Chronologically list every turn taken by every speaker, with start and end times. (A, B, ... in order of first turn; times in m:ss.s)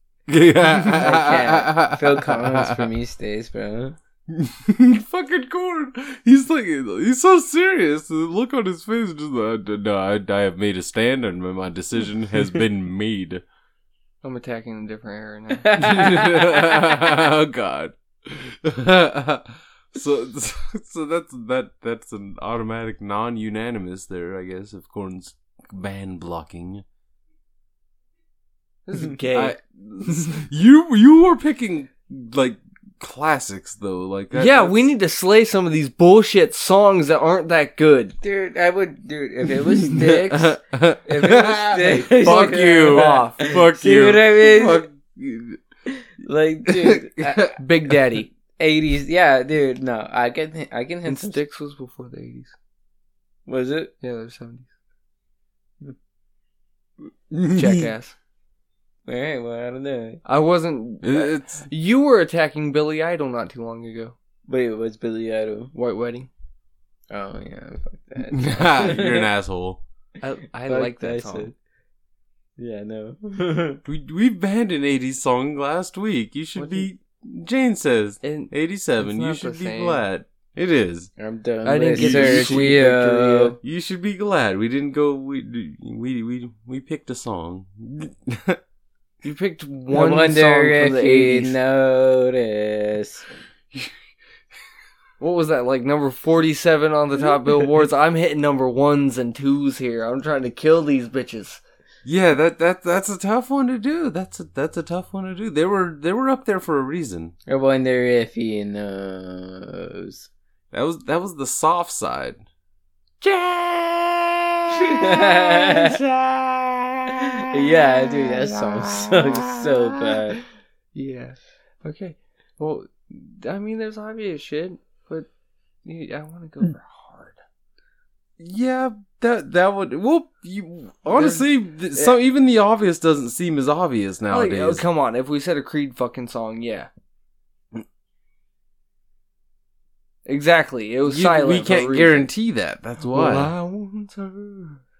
0:00.3-0:02.9 A
0:00.8-0:04.0 B
0:04.3-0:13.4 A
0:14.2-0:15.8 C
0:15.6-0:16.7 B
0:15.7-0:26.8 A
0:28.9-0:30.4 C
0:29.3-0:34.9 A
0:34.3-0:38.2 C
0:38.2-0:44.9 B
0:39.8-0:45.6 A
0:42.1-0:43.5 C
0:45.9-0:47.5 B
0:46.7-0:47.5 A
0:47.6-0:48.3 C
0:48.6-0:51.4 B
0:51.1-0:52.6 C
0:53.5-0:53.9 B
0:54.0-0:54.7 C
0:57.3-0:57.9 B
0:57.5-0:58.2 C
0:59.1-1:00.2 B
1:00.2-1:04.2 C
1:01.0-1:01.7 A
1:04.5-1:05.7 B
1:05.7-1:06.3 C
1:07.1-1:09.3 B
1:08.3-1:09.8 A
1:10.2-1:11.5 C
1:10.7-1:11.5 B
1:12.6-1:13.8 B
1:13.9-1:21.1 A
1:16.6-1:16.9 C
1:18.2-1:20.0 C
1:21.2-1:23.6 B
1:21.6-1:23.6 C
1:22.0-1:22.7 A
1:23.6-1:28.6 A
1:29.2-1:31.6 C
1:29.9-1:33.3 B
1:35.2-1:41.6 C
1:42.0-1:47.3 A
1:47.5-1:50.3 B
1:50.7-1:52.4 A
1:53.2-2:00.2 A
1:54.8-1:56.0 B
1:57.3-2:00.4 B
2:00.9-2:05.3 C
2:05.8-2:07.4 C
2:08.4-2:14.8 A
2:11.1-2:12.2 C
2:14.3-2:16.9 C
2:20.3-2:22.3 C
2:21.1-2:23.5 A
2:23.1-2:24.8 C